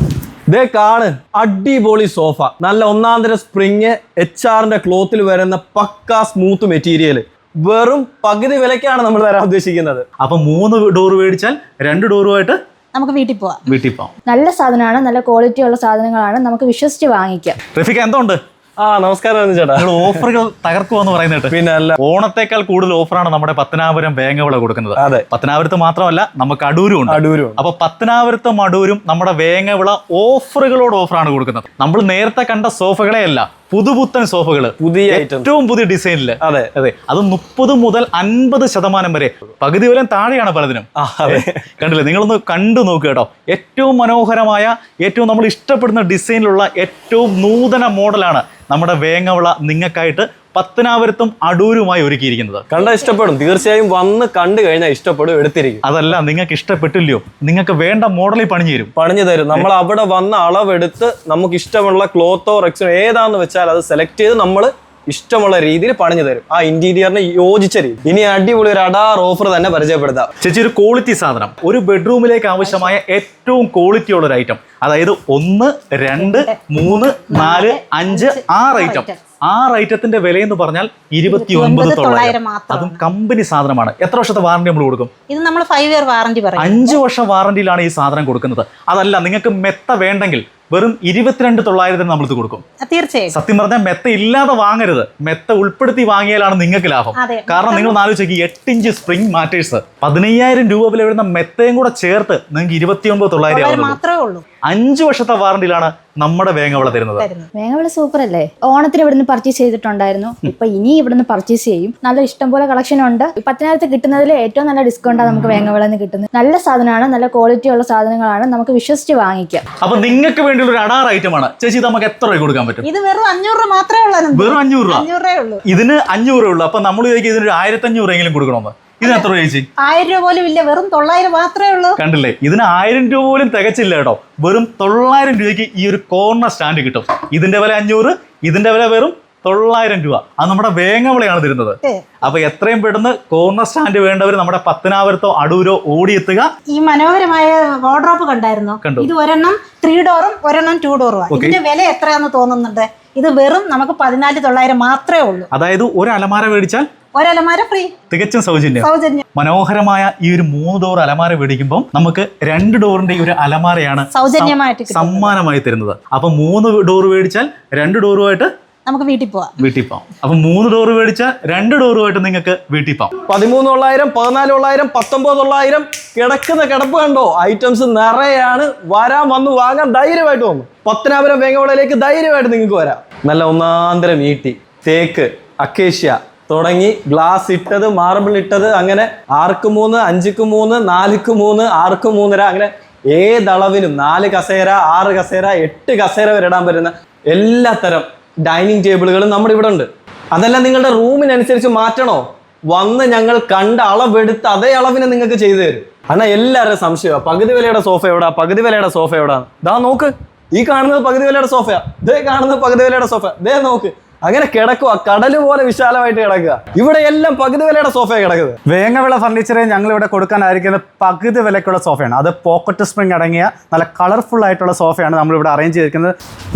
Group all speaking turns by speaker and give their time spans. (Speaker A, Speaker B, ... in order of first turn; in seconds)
Speaker A: 0.5-10.1, 18.8-20.1, 21.5-22.0, 25.0-25.3, 27.1-27.6, 34.8-35.5, 36.4-36.7, 41.0-41.6, 52.7-55.8, 59.0-70.3, 173.3-218.6
Speaker B: 10.2-12.6, 13.7-14.1, 17.7-18.4, 19.8-52.6, 55.8-58.9, 70.4-85.1, 86.6-92.6, 93.3-104.0, 104.7-107.3, 119.8-122.9, 124.3-125.1, 125.7-129.7, 132.0-146.5, 148.8-149.1, 151.3-151.6, 155.5-156.8, 158.1-168.5, 169.6-173.1
Speaker C: 12.9-13.6, 76.2-79.2, 81.3-83.0, 85.3-87.0, 92.8-93.4, 97.2-98.0, 103.5-104.4, 107.2-107.5, 122.8-125.6, 129.0-129.3, 129.8-132.0, 141.8-142.2, 146.7-155.5, 157.2-157.9, 158.8-159.2, 164.1-165.3, 168.9-169.5
Speaker D: 14.3-17.6, 107.6-119.7
Speaker E: 218.7-226.1